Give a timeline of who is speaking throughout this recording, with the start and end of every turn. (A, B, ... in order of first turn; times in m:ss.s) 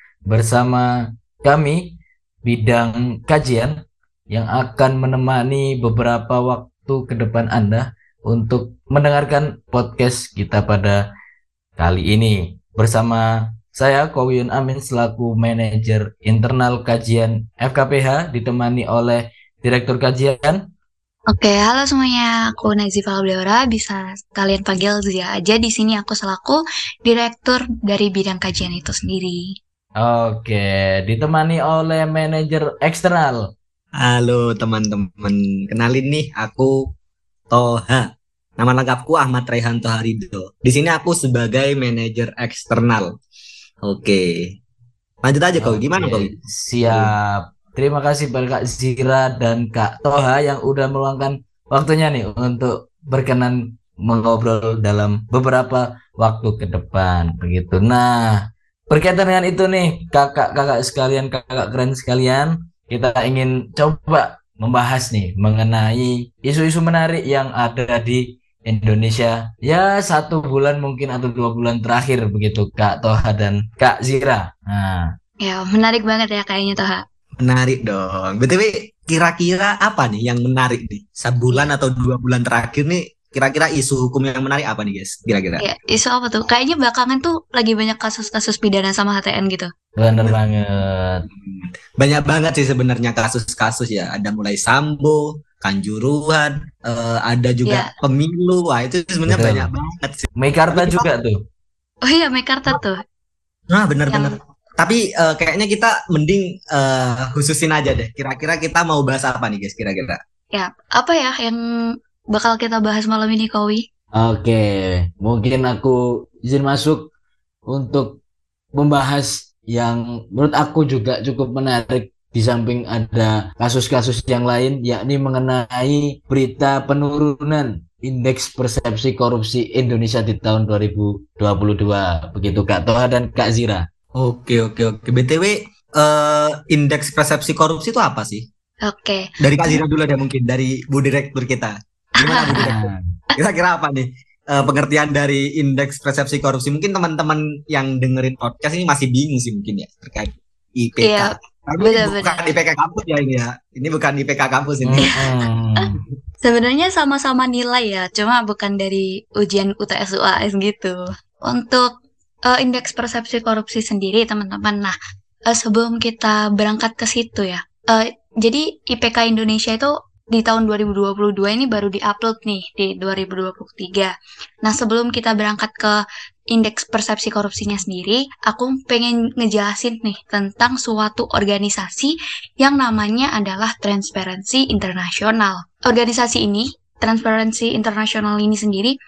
0:00.3-0:00.9 A
0:01.4-0:03.8 A
0:04.3-0:11.0 A
0:11.8-0:20.6 A
0:21.3-0:29.4 B
0:30.0-0:33.5 A
0:34.0-0:36.9 C
0:37.5-0:38.1 C
0:38.6-0:43.1 C
0:43.9-0:44.3 C
0:45.2-0:46.3 C
0:45.6-1:15.1 A
1:15.4-1:17.0 B
1:17.4-1:25.6 C
1:25.6-1:29.7 B
1:30.0-1:31.2 A
1:31.3-1:41.1 C
1:37.7-1:37.9 B
1:39.3-1:39.7 A
1:40.4-1:41.4 A
1:42.1-1:43.0 B
1:43.7-1:50.2 C
1:44.1-1:44.4 B
1:50.5-1:51.6 B
1:52.3-1:53.8 B
1:54.1-1:57.1 A
1:57.7-1:58.2 A
1:58.8-2:13.8 A
2:14.1-2:18.4 C
2:18.9-2:19.8 B
2:19.4-2:35.1 C
2:22.2-2:22.7 B
2:22.5-2:23.0 A
2:31.0-2:32.4 B
2:34.8-2:36.0 A
2:35.0-2:35.3 B
2:36.4-2:41.9 B
2:42.5-2:44.9 B
2:45.5-3:09.0 B